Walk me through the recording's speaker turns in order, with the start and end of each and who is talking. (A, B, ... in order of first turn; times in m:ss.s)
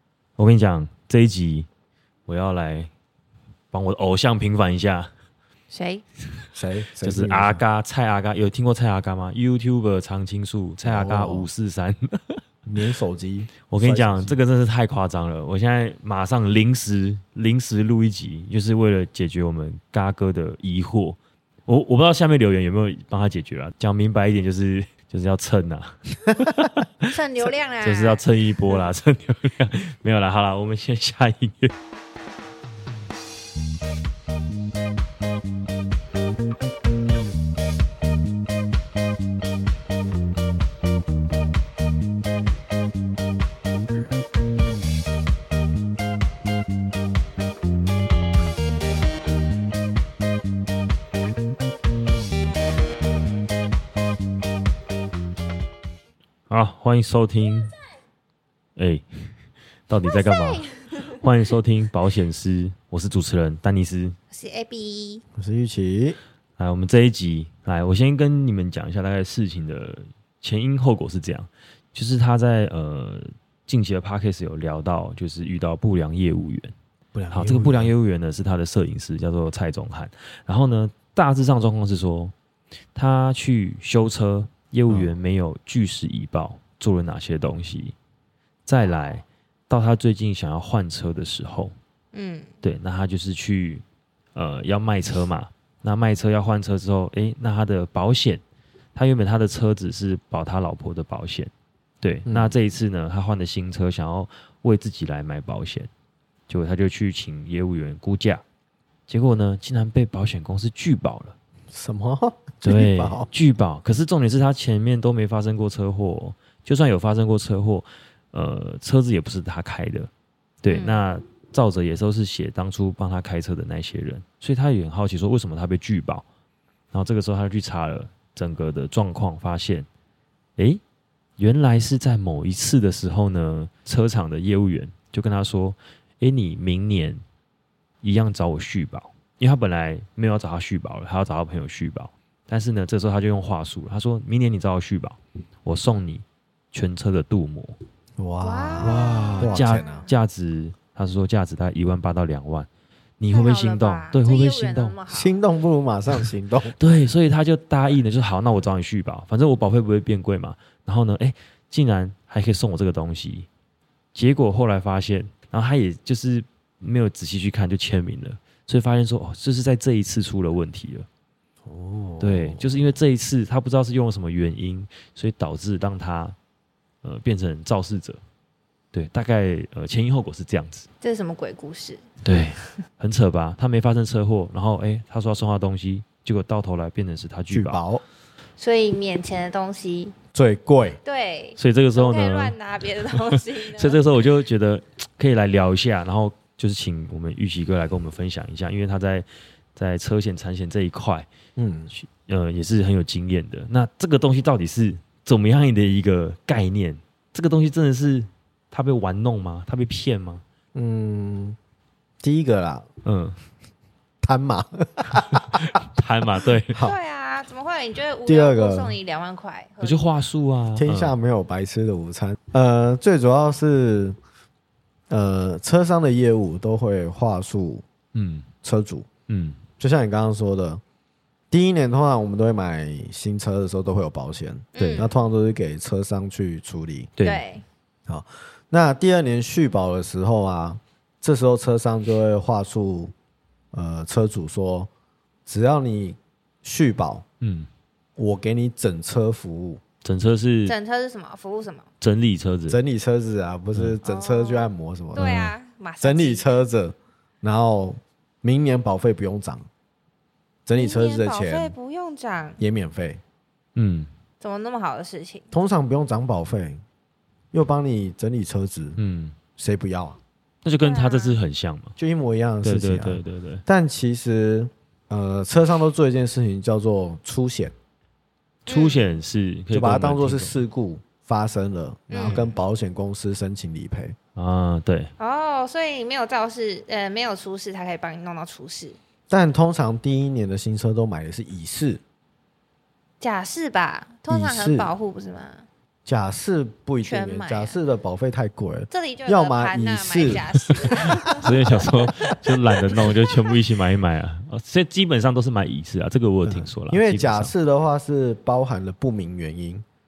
0:00.4-0:01.7 A
0:02.3-0:02.9 A
0:03.7-0:05.1 A
0:05.7-0:06.0 B
0:06.6-0:07.6 C
0:07.0-0:12.4 A
0:10.8-0:11.5 C
0:12.7-0:14.4 C
0:13.7-0:27.1 A
0:27.1-0:28.8 B
0:27.8-0:31.7 A
0:56.5-0:57.8 A
0:58.8-0:59.3 A
0:59.9-1:04.2 A
1:00.1-1:01.1 B
1:04.3-1:05.2 B
1:05.4-1:06.2 C
1:06.6-1:16.7 A
1:17.1-1:17.9 C
1:17.3-1:22.3 A
1:23.0-1:28.0 A
1:24.9-1:25.2 C
1:28.7-1:31.8 A
1:32.1-1:32.5 B
1:32.6-1:33.8 A
1:34.4-1:38.4 A
1:39.0-1:45.9 A
1:42.3-1:42.6 C
1:46.5-1:48.4 A
1:49.1-1:51.4 A
1:51.7-1:53.3 C
1:52.6-2:00.1 A
2:00.6-2:06.2 A
2:00.7-2:01.0 B
2:06.9-2:09.9 A
2:11.4-2:17.2 A
2:18.0-2:27.8 A
2:28.2-2:30.1 C
2:28.4-2:30.1 B
2:28.8-2:32.7 A
2:33.2-2:35.0 A
2:33.3-2:35.4 B
2:35.1-2:36.8 C
2:36.8-2:43.5 A
2:44.1-2:51.1 A
2:51.6-2:52.9 C
2:52.2-2:56.4 A
2:57.0-2:58.2 A
2:58.9-3:00.9 A
3:01.0-3:02.1 B
3:02.2-3:07.8 A
3:07.5-3:08.0 C
3:08.6-3:10.2 B
3:10.3-3:11.0 C
3:11.0-3:14.0 B
3:11.6-3:12.6 A
3:13.2-3:21.3 A
3:21.6-3:21.9 C
3:21.9-3:30.4 A
3:30.7-3:31.6 C
3:32.2-3:32.9 C
3:33.0-3:33.4 A
3:34.2-3:35.8 C
3:35.2-3:36.8 A
3:36.7-3:37.0 C
3:36.8-3:40.1 B
3:38.3-3:39.0 C
3:39.8-3:41.2 A
3:40.8-3:44.2 C
3:45.1-3:47.8 C
3:48.2-3:48.5 A
3:48.6-3:49.1 C
3:49.3-3:49.6 A
3:49.8-3:50.8 C
3:51.5-3:57.1 C
3:54.8-3:55.1 B
3:54.8-3:55.1 A
3:57.2-3:57.4 A
3:57.2-3:57.6 B
3:58.1-4:03.1 C
4:03.7-4:04.9 C
4:05.5-4:07.2 C
4:07.4-4:07.7 A
4:08.2-4:09.8 C
4:10.0-4:10.8 A
4:10.7-4:11.9 B
4:12.0-4:12.8 A
4:12.7-4:19.7 C
4:14.0-4:16.6 B
4:15.2-4:15.4 A
4:20.7-4:21.8 C
4:20.8-4:22.6 B
4:22.6-4:23.2 C
4:23.8-4:24.1 A
4:24.4-4:25.5 B
4:25.5-4:26.8 C
4:27.5-4:29.0 C
4:29.0-4:29.4 A
4:29.6-4:30.2 C
4:30.6-4:32.0 A
4:30.8-4:31.4 B
4:32.0-4:37.7 C
4:32.6-4:33.6 A
4:38.7-4:40.6 A
4:38.7-4:39.0 B
4:39.7-4:44.2 C
4:42.1-4:42.6 B
4:42.2-4:42.5 A
4:44.4-4:45.1 A
4:45.2-4:49.0 B
4:49.3-4:52.0 C
4:53.2-4:55.7 B
4:54.3-4:54.9 C
4:56.1-5:01.9 C
4:57.0-4:57.8 B
4:58.9-5:01.5 B
5:01.3-5:07.5 A
5:03.0-5:03.4 B
5:06.4-5:09.8 C